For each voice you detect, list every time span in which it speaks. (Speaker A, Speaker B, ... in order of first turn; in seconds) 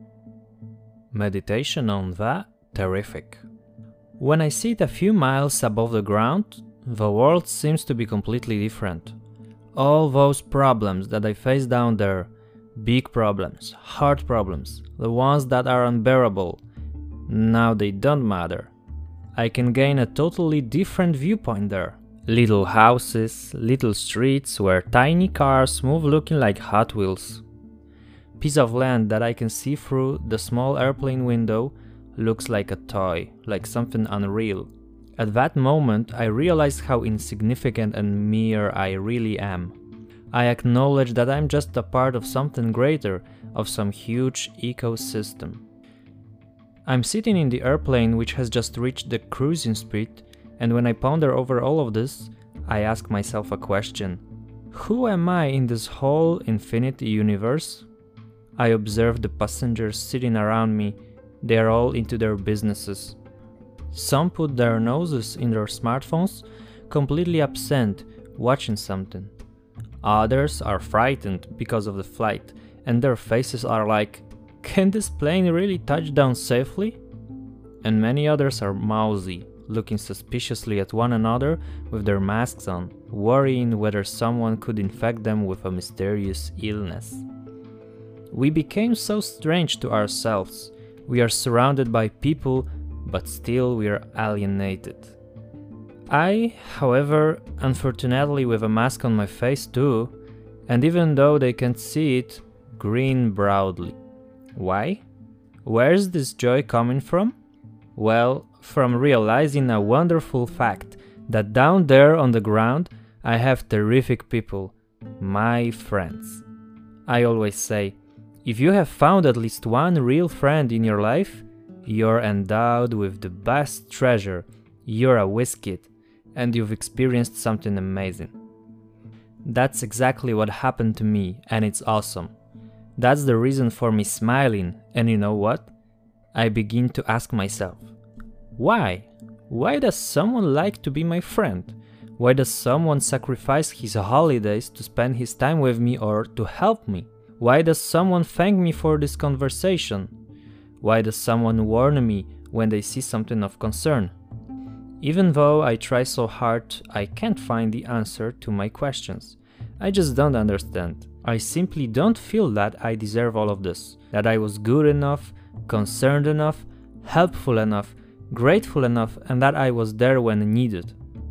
Speaker A: 1.1-3.4, 4.2-9.2, 9.7-16.6, 17.3-18.7, 19.3-27.4, 28.4-39.8, 40.3-45.6, 46.9-54.2, 54.7-57.9, 58.5-63.2, 63.9-69.3, 70.0-77.0, 77.8-87.2, 88.3-95.1, 96.1-100.1, 100.7-104.0, 104.5-105.0, 105.6-107.3, 108.0-116.4, 117.0-128.3, 129.4-132.3, 133.0-135.7, 136.3-137.9, 138.6-150.1, 150.8-154.1, 155.0-170.9